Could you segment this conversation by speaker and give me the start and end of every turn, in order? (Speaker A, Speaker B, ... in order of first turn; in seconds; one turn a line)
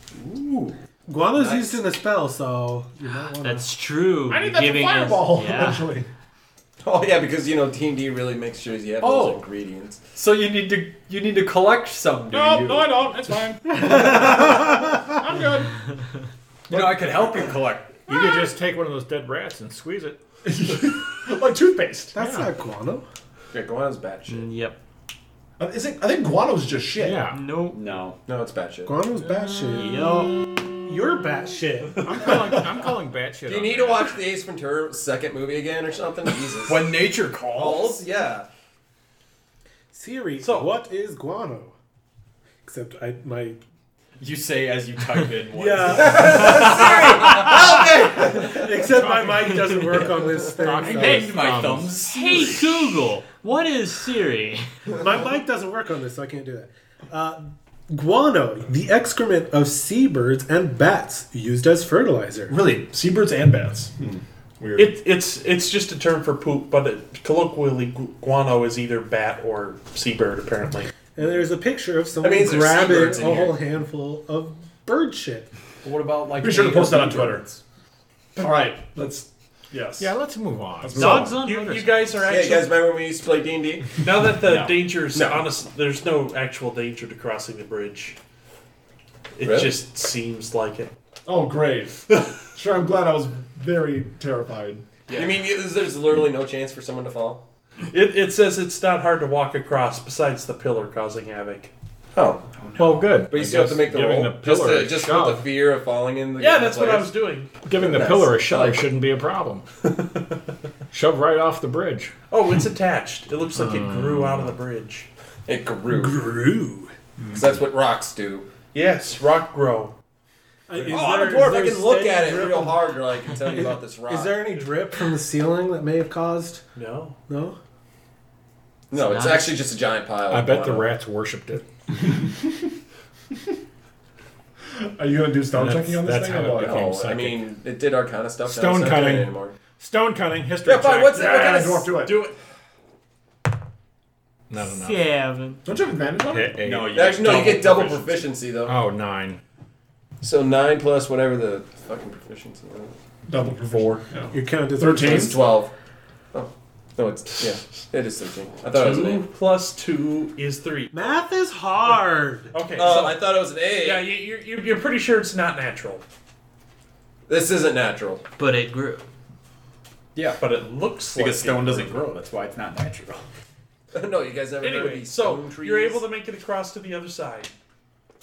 Speaker A: 0.2-0.8
Speaker B: 1.1-3.7
Speaker C: 1.4-1.8
Speaker D: 3.4-6.0
Speaker E: 4.3-6.1
Speaker C: 6.8-10.0
Speaker A: 9.0-9.4
Speaker A: 10.1-13.2
Speaker E: 12.3-15.9
Speaker B: 13.8-14.7
Speaker A: 16.7-18.1
Speaker E: 16.7-17.5
Speaker F: 18.1-20.2
Speaker E: 20.4-22.2
Speaker B: 22.1-23.1
Speaker F: 22.2-22.5
Speaker C: 23.5-24.4
Speaker D: 24.3-24.8
Speaker E: 25.6-27.3
Speaker F: 27.0-27.4
Speaker D: 27.3-27.8
Speaker A: 27.7-28.2
Speaker C: 28.2-28.9
Speaker B: 28.9-30.3
Speaker D: 29.7-30.4
Speaker B: 30.8-32.1
Speaker F: 32.0-34.2
Speaker E: 32.2-32.8
Speaker C: 33.5-38.5
Speaker A: 36.6-38.0
Speaker B: 39.9-41.7
Speaker G: 40.4-40.8
Speaker B: 42.6-43.6
Speaker A: 44.2-47.0
Speaker B: 45.5-46.8
Speaker C: 45.9-48.9
Speaker B: 47.4-51.4
Speaker F: 48.9-49.9
Speaker F: 50.5-52.0
Speaker A: 50.8-52.9
Speaker D: 52.0-54.6
Speaker B: 55.0-62.6
Speaker E: 62.5-64.8
Speaker G: 64.8-70.9
Speaker B: 71.2-75.5
Speaker C: 72.2-73.6
Speaker A: 75.8-77.6
Speaker E: 76.4-77.5
Speaker E: 78.4-80.1
Speaker F: 80.0-81.3
Speaker E: 80.8-81.4
Speaker D: 81.0-82.0
Speaker G: 81.3-82.7
Speaker C: 82.2-84.0
Speaker G: 84.0-88.2
Speaker A: 84.5-84.7
Speaker C: 85.1-85.5
Speaker G: 89.4-90.9
Speaker C: 89.4-89.8
Speaker E: 91.3-94.8
Speaker A: 95.1-95.4
Speaker C: 95.1-97.5
Speaker G: 97.9-101.7
Speaker C: 102.1-102.5
Speaker A: 102.5-103.2
Speaker F: 102.8-105.5
Speaker C: 103.3-107.1
Speaker G: 106.4-107.5
Speaker F: 107.7-109.7
Speaker C: 107.7-108.9
Speaker F: 110.9-112.1
Speaker G: 112.3-115.1
Speaker F: 113.5-114.5
Speaker C: 115.5-116.4
Speaker B: 115.9-116.9
Speaker C: 117.3-118.5
Speaker G: 118.7-119.9
Speaker B: 120.7-126.6
Speaker C: 120.9-124.4
Speaker G: 126.8-127.2
Speaker B: 127.3-127.6
Speaker C: 128.9-130.9
Speaker D: 128.9-129.7
Speaker F: 130.3-131.7
Speaker E: 134.8-136.9
Speaker F: 135.5-137.4
Speaker C: 136.6-139.6
Speaker F: 138.4-141.4
Speaker C: 140.7-142.1
Speaker E: 141.1-142.3
Speaker G: 142.1-142.3
Speaker F: 144.5-145.0
Speaker D: 144.6-145.6
Speaker E: 145.7-146.6
Speaker F: 146.3-147.1
Speaker A: 146.6-148.3
Speaker C: 146.9-148.8
Speaker F: 148.6-149.4
Speaker C: 150.2-152.9
Speaker E: 153.3-155.4
Speaker B: 154.3-155.3
Speaker C: 155.0-155.7
Speaker C: 156.3-159.2
Speaker G: 158.7-161.1
Speaker B: 160.9-162.6
Speaker G: 162.5-166.0
Speaker C: 162.8-164.1
Speaker C: 167.3-168.2
Speaker D: 168.4-169.1
Speaker A: 170.2-170.4
Speaker G: 170.4-172.0
Speaker A: 171.2-173.2
Speaker C: 173.9-176.0
Speaker G: 174.6-177.5